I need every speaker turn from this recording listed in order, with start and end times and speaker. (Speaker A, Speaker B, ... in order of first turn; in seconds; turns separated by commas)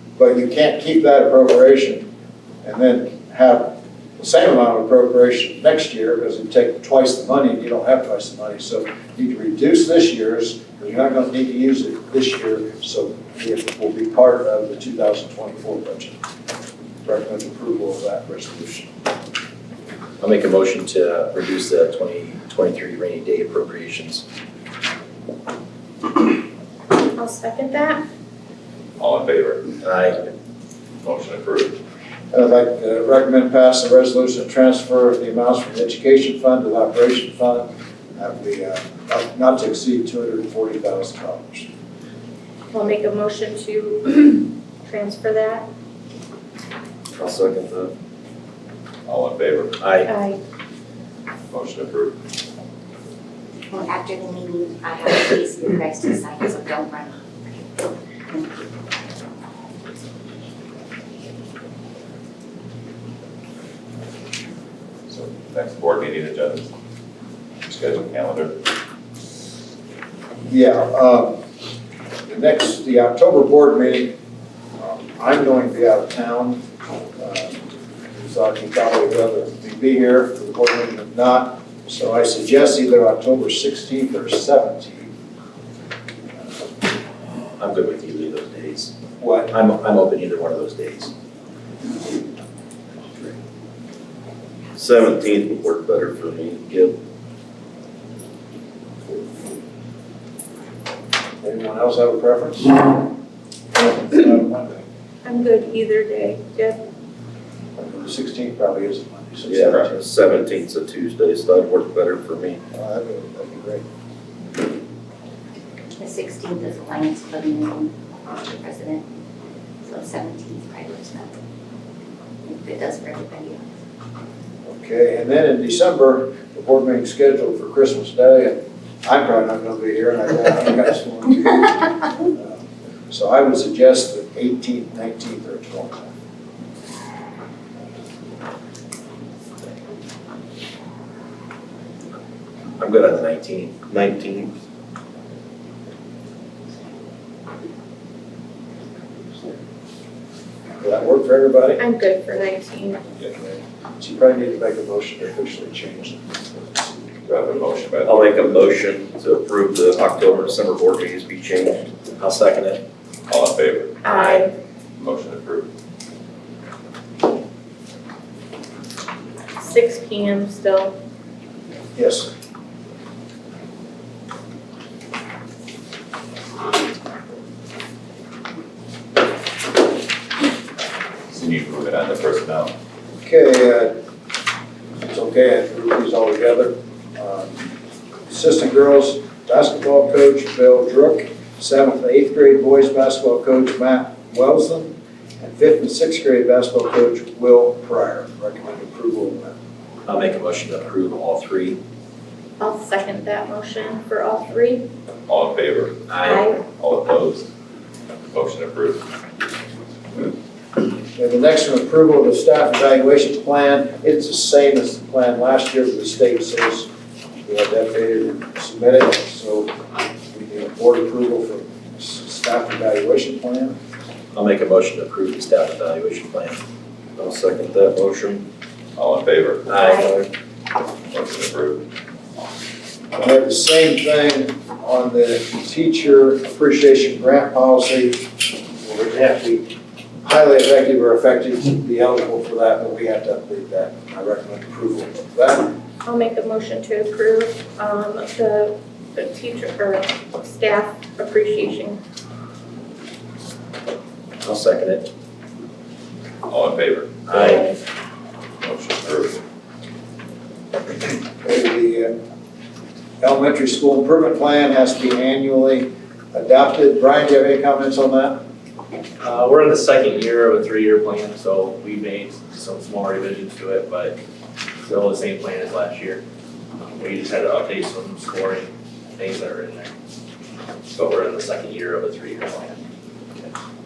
Speaker A: 0.2-2.1, Speaker A: 2.6-16.1, Speaker A: 17.1-18.9, Speaker B: 20.2-24.2, Speaker C: 27.1-28.0, Speaker D: 29.0-29.9, Speaker B: 29.8-30.2, Speaker D: 31.0-31.8, Speaker A: 32.3-41.7, Speaker C: 42.7-45.7, Speaker E: 47.2-47.9, Speaker D: 49.1-49.9, Speaker B: 49.8-50.1, Speaker C: 50.1-50.4, Speaker D: 51.5-52.2, Speaker F: 53.7-59.1, Speaker D: 65.1-66.7, Speaker D: 67.7-68.6, Speaker A: 70.5-71.4, Speaker A: 72.3-74.2, Speaker A: 74.8-76.6, Speaker A: 77.2-85.1, Speaker B: 87.6-88.9, Speaker A: 89.2-89.5, Speaker B: 89.5-91.1, Speaker E: 94.8-97.0, Speaker A: 101.4-102.9, Speaker A: 103.8-104.8, Speaker C: 105.2-106.8, Speaker A: 107.8-110.0, Speaker E: 109.5-112.6, Speaker A: 112.7-113.8, Speaker F: 116.0-119.1, Speaker F: 119.8-121.4, Speaker F: 122.4-123.7, Speaker A: 124.7-136.1, Speaker B: 142.8-143.8, Speaker E: 143.9-144.5, Speaker A: 150.8-151.8, Speaker C: 151.8-153.0, Speaker A: 153.3-157.0, Speaker D: 157.3-158.7, Speaker E: 158.1-161.9, Speaker B: 162.2-162.8, Speaker D: 163.3-164.2, Speaker C: 164.0-164.5, Speaker B: 164.1-164.5, Speaker D: 165.0-165.7, Speaker C: 169.6-170.9, Speaker A: 171.9-172.3, Speaker D: 181.3-182.7, Speaker A: 183.2-183.9, Speaker A: 185.1-187.7, Speaker A: 188.3-199.6, Speaker B: 200.1-201.8, Speaker C: 202.6-204.8, Speaker D: 205.3-206.2, Speaker B: 206.1-206.5, Speaker C: 206.2-206.6, Speaker D: 206.7-207.5, Speaker D: 208.3-209.1, Speaker A: 211.2-216.9, Speaker A: 217.4-219.7, Speaker A: 220.3-223.8, Speaker B: 224.3-226.6, Speaker E: 227.2-228.5, Speaker D: 229.0-229.8, Speaker B: 229.7-230.1, Speaker D: 231.1-231.8, Speaker A: 233.2-245.7, Speaker C: 246.1-252.0, Speaker B: 254.4-255.1, Speaker D: 256.5-257.6, Speaker C: 257.3-257.8, Speaker B: 257.4-257.7, Speaker D: 258.6-259.4, Speaker A: 261.4-262.1, Speaker A: 263.2-268.4, Speaker G: 269.2-274.2, Speaker G: 274.9-276.2, Speaker G: 276.9-279.9, Speaker G: 280.9-282.8